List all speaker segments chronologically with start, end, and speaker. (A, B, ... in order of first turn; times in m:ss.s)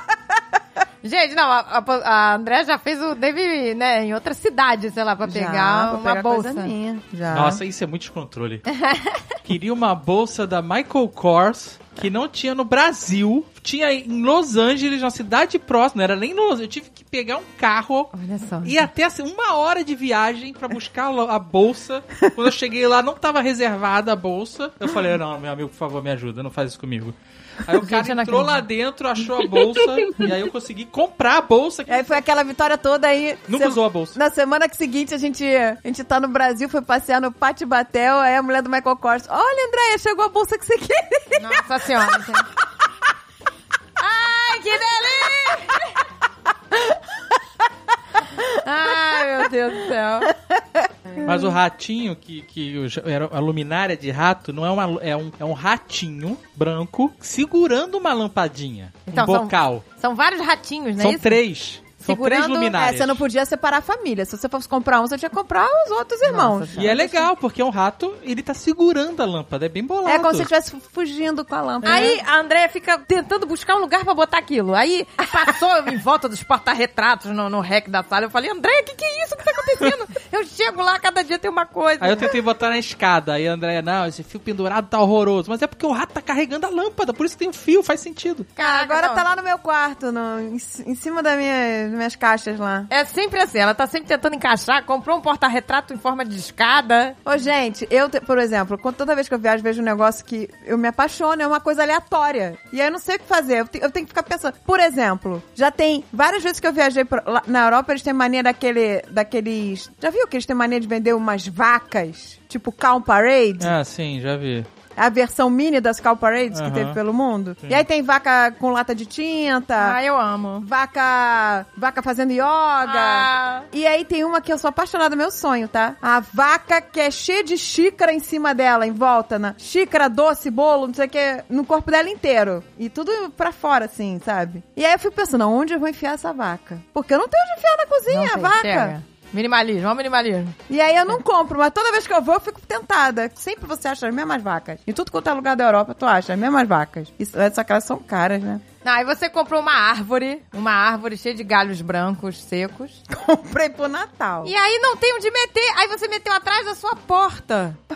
0:01.0-0:06.7 A
0:05.2-0:07.6 B
0:07.3-0:08.6 C
0:08.7-0:09.2 A
0:09.4-0:18.1 C
0:18.1-0:18.9 A
0:18.6-0:32.2 C
0:27.8-0:28.6 A
0:31.9-0:41.6 B
0:33.5-0:34.2 C
0:41.4-0:42.5 A
0:44.0-0:45.9 A
0:48.6-0:50.3 A
0:51.2-0:59.8 C
0:59.1-1:01.4 A
1:01.0-1:03.2 C
1:02.1-1:07.3 B
1:06.2-1:07.0 A
1:06.8-1:10.5 C
1:10.0-1:12.2 B
1:11.8-1:22.3 A
1:22.0-1:28.5 C
1:28.6-1:29.2 A
1:28.6-1:32.9 B
1:32.9-1:37.2 A
1:37.3-1:53.7 B
1:53.6-1:54.7 C
1:55.0-2:00.0 B
1:56.5-1:57.0 C
1:59.8-2:00.7 A
2:00.6-2:18.9 B
2:02.8-2:03.7 A
2:18.1-2:20.6 A
2:20.7-2:28.6 B
2:28.8-2:33.0 A
2:33.1-2:34.5 B
2:34.4-2:37.8 A